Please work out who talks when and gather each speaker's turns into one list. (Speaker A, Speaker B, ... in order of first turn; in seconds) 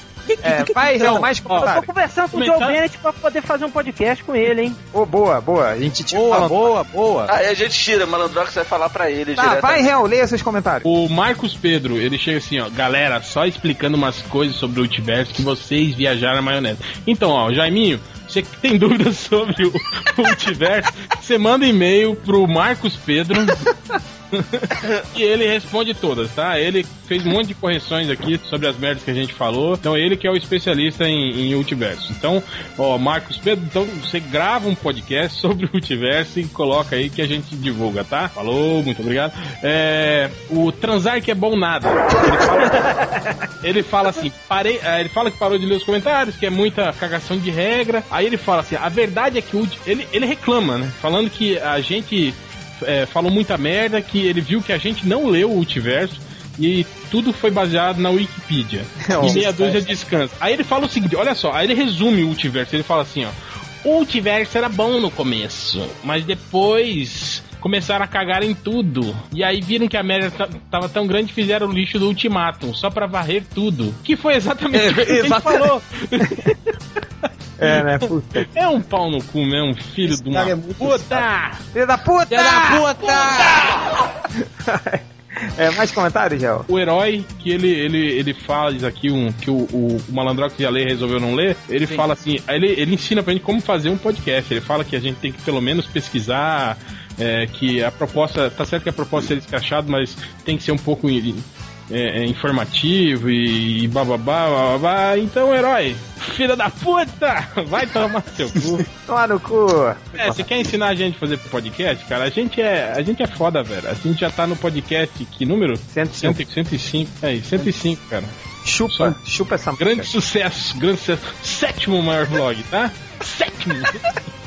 Speaker A: 0.4-1.9, 4.9-6.8, 9.4-10.9, 59.0-59.9, 74.7-76.4, 77.6-78.5, 81.7-82.9, 84.4-85.0, 85.5-86.7, 109.1-110.4, 115.9-116.4, 118.6-120.1
Speaker B: 0.6-1.6, 6.1-7.3, 80.1-81.2, 82.3-83.7
Speaker C: 1.6-4.8
Speaker D: 2.3-2.8, 10.8-23.7, 24.3-42.9, 43.6-76.6, 78.5-81.6, 86.7-108.8, 110.2-118.3, 118.9-119.2, 119.8-124.2
Speaker E: 7.3-9.9